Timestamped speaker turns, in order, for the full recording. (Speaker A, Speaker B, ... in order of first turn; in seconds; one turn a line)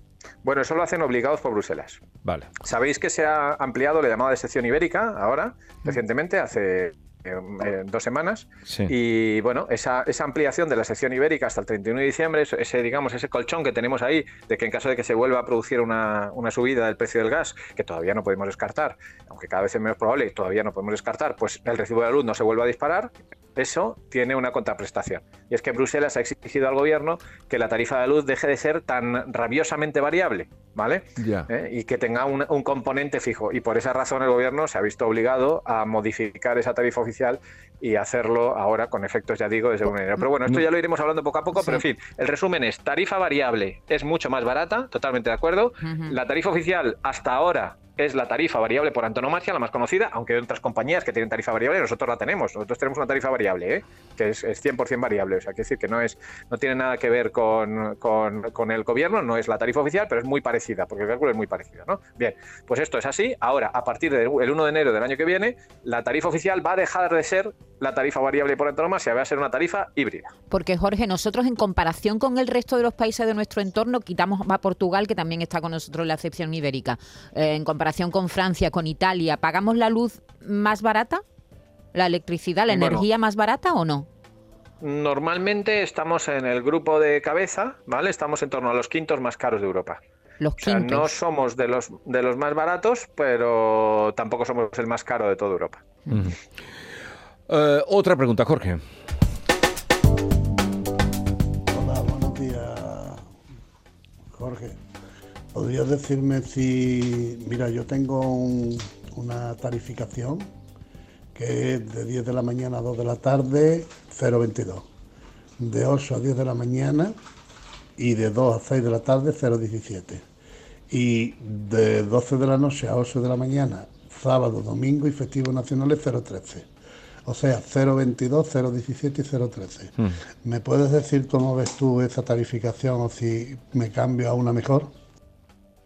Speaker A: 0.4-2.0
Speaker B: 2.2-2.5
Speaker A: 2.6-70.3
Speaker B: 31.2-31.5
Speaker C: 41.5-41.8
Speaker C: 45.8-46.2
Speaker C: 70.5-81.2
Speaker C: 81.9-84.1
Speaker A: 82.7-83.0
Speaker A: 84.8-90.0
Speaker C: 90.4-91.1
Speaker A: 90.6-95.8
Speaker B: 96.1-96.4
Speaker B: 97.5-98.8
Speaker D: 101.7-103.2
Speaker D: 104.3-104.8
Speaker D: 105.5-110.5
Speaker D: 111.3-114.9
Speaker D: 115.6-117.1
Speaker D: 118.0-120.2
Speaker D: 120.9-126.7
Speaker D: 127.2-134.9